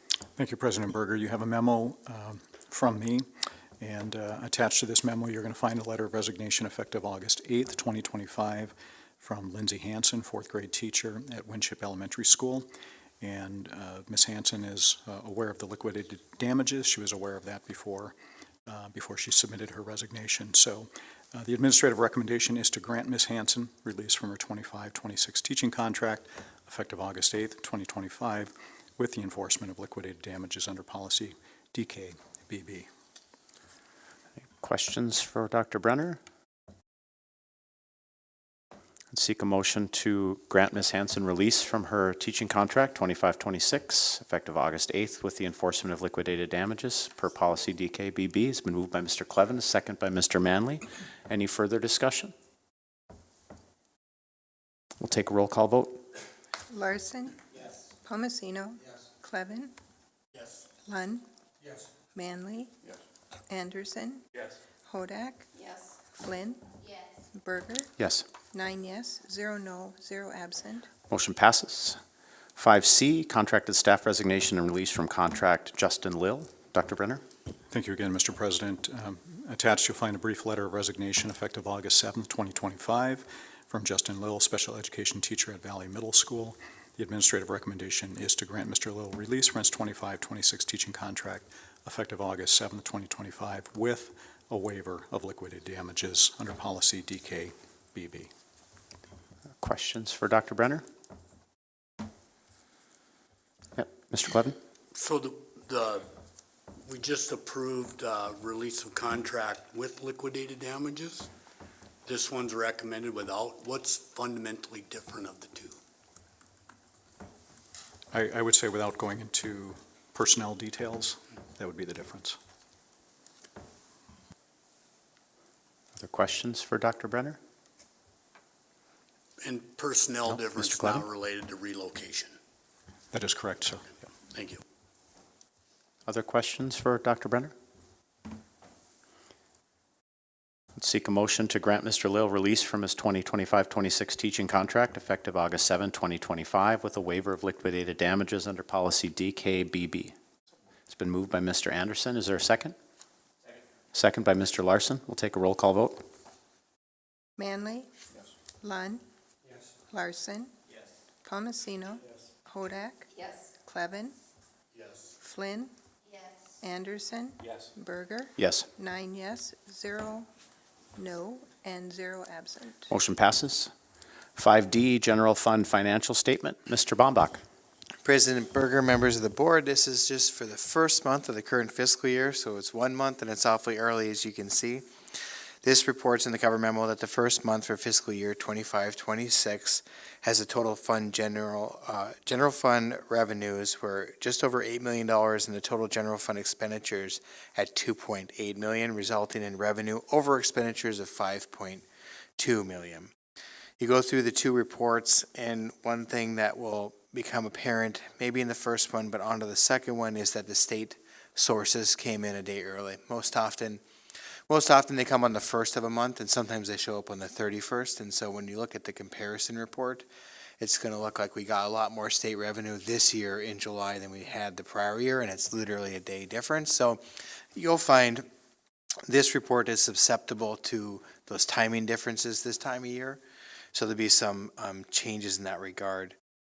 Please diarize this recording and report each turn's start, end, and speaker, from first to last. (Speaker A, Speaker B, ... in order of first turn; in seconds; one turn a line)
Speaker A: 0.4-3.3
Speaker A: 3.8-32.9
Speaker B: 34.6-36.2
Speaker B: 39.1-52.3
Speaker B: 55.0-56.0
Speaker C: 56.7-57.4
Speaker C: 58.0-59.7
Speaker C: 60.9-61.2
Speaker C: 62.1-62.7
Speaker C: 63.5-64.3
Speaker C: 64.9-66.7
Speaker C: 67.3-67.9
Speaker B: 68.0-68.3
Speaker C: 68.5-70.9
Speaker B: 71.1-72.0
Speaker B: 72.6-77.2
Speaker A: 77.7-98.3
Speaker B: 99.6-100.9
Speaker B: 103.8-104.6
Speaker D: 104.9-106.1
Speaker D: 106.8-111.3
Speaker D: 112.1-115.8
Speaker A: 118.1-122.4
Speaker B: 126.0-127.4
Speaker D: 129.4-132.3
Speaker B: 130.3-131.1
Speaker A: 133.1-133.8
Speaker D: 134.3-134.6
Speaker B: 136.1-137.5
Speaker B: 140.8-150.2
Speaker B: 150.9-152.8
Speaker B: 153.9-156.0
Speaker C: 157.4-157.9
Speaker C: 158.6-159.0
Speaker C: 159.9-160.5
Speaker C: 161.2-164.2
Speaker C: 165.2-165.7
Speaker C: 166.6-170.3
Speaker B: 168.4-168.7
Speaker C: 171.0-172.9
Speaker B: 172.9-173.7
Speaker B: 174.4-177.4
Speaker E: 178.0-184.9
Speaker E: 185.6-201.8
Speaker E: 202.4-203.1
Speaker E: 203.8-213.8
Speaker E: 214.5-220.1
Speaker E: 220.6-227.0
Speaker E: 227.6-228.3
Speaker E: 229.1-233.2
Speaker E: 233.7-236.2